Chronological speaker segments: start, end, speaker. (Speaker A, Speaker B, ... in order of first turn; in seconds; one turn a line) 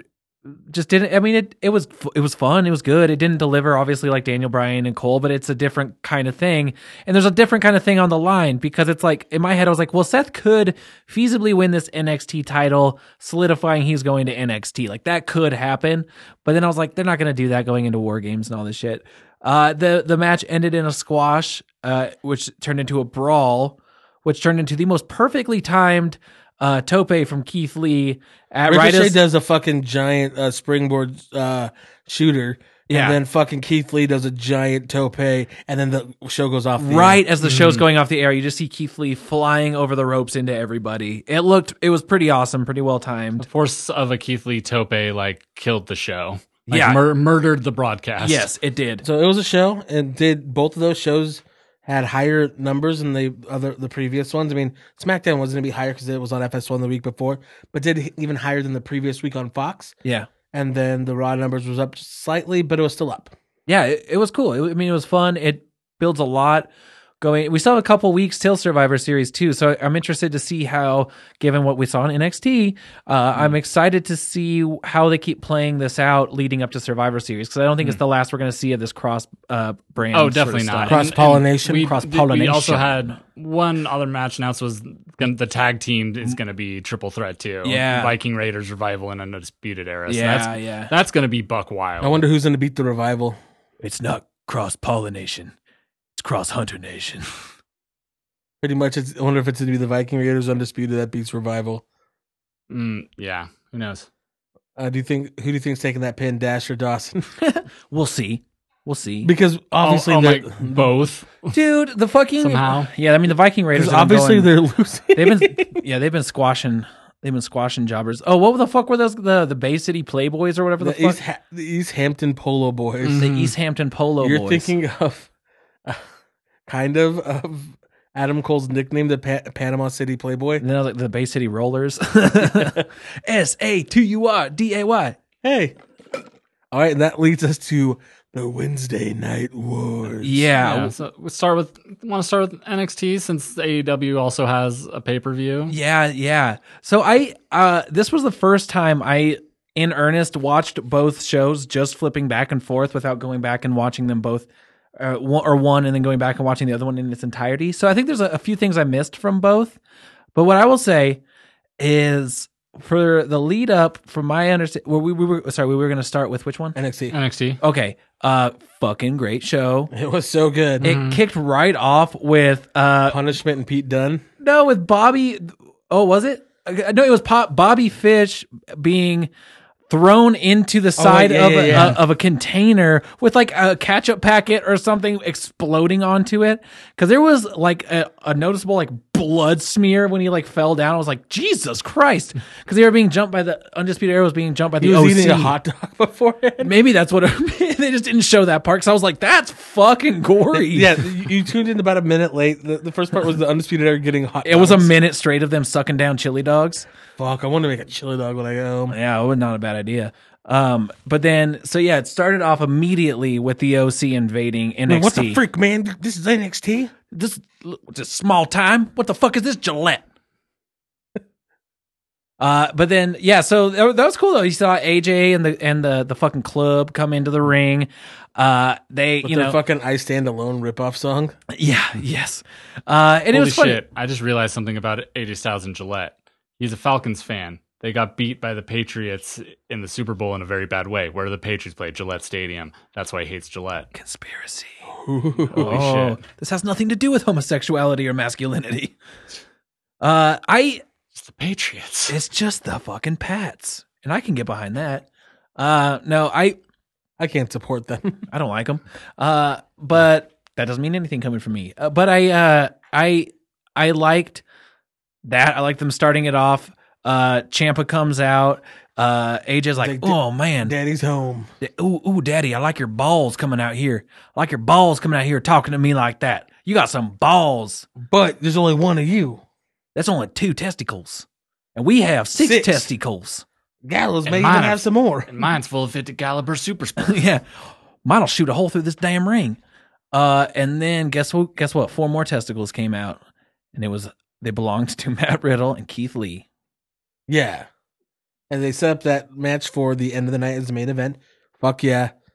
Speaker A: 0.5-29.2
Speaker B: 28.7-37.2
Speaker A: 32.9-33.2
Speaker A: 36.8-43.5
Speaker C: 37.4-37.9
Speaker C: 43.4-48.5
Speaker A: 46.7-47.0
Speaker A: 48.2-49.0
Speaker B: 49.0-60.0
Speaker B: 60.5-63.3
Speaker A: 63.7-66.7
Speaker A: 67.2-81.1
Speaker C: 80.1-92.2
Speaker B: 80.9-81.9
Speaker A: 81.7-83.2
Speaker A: 87.6-88.1
Speaker A: 90.1-90.9
Speaker B: 92.0-93.4
Speaker A: 93.8-95.5
Speaker A: 96.2-97.3
Speaker B: 98.6-101.8
Speaker C: 102.7-104.1
Speaker B: 104.8-107.2
Speaker A: 107.4-109.3
Speaker B: 109.2-110.9
Speaker C: 109.8-111.5
Speaker A: 111.5-114.5
Speaker C: 112.4-112.9
Speaker B: 113.7-115.8
Speaker A: 115.2-121.2
Speaker B: 120.8-123.3
Speaker C: 123.1-123.5
Speaker A: 123.1-124.7
Speaker B: 124.2-125.3
Speaker B: 126.7-130.6
Speaker A: 130.6-135.2
Speaker B: 132.4-132.8
Speaker B: 135.4-135.8
Speaker B: 136.7-140.5
Speaker A: 140.2-140.9
Speaker C: 140.6-145.8
Speaker A: 145.7-154.5
Speaker A: 155.0-159.8
Speaker A: 160.3-161.2
Speaker A: 161.8-166.8
Speaker B: 166.8-167.2
Speaker C: 167.1-167.6
Speaker A: 167.6-169.9
Speaker B: 169.9-170.9
Speaker C: 170.8-171.2
Speaker A: 170.8-173.2
Speaker B: 173.1-174.2
Speaker A: 174.4-179.3
Speaker A: 179.9-195.6
Speaker B: 181.0-182.0
Speaker B: 194.8-196.7
Speaker A: 196.6-201.1
Speaker B: 200.5-204.9
Speaker A: 204.4-206.9
Speaker B: 207.2-209.0
Speaker A: 208.9-215.4
Speaker B: 214.9-216.9
Speaker A: 217.1-220.0
Speaker A: 222.4-229.6
Speaker B: 229.2-231.3
Speaker A: 231.5-233.8
Speaker C: 233.3-243.9
Speaker A: 243.9-244.9
Speaker B: 244.9-245.8
Speaker A: 245.5-249.0
Speaker C: 245.5-246.2
Speaker A: 250.0-250.8
Speaker C: 251.2-252.2
Speaker A: 252.1-255.1
Speaker A: 255.6-256.6
Speaker B: 257.2-258.2
Speaker A: 258.3-264.4
Speaker A: 265.2-270.7
Speaker B: 269.8-271.5
Speaker A: 271.6-277.9
Speaker B: 278.0-279.4
Speaker A: 279.9-283.4
Speaker B: 282.4-282.9
Speaker B: 283.9-285.3
Speaker C: 284.3-287.2
Speaker A: 287.0-287.4
Speaker A: 288.1-289.6
Speaker A: 290.1-293.2
Speaker A: 293.7-296.4
Speaker B: 297.3-297.7
Speaker B: 298.5-302.1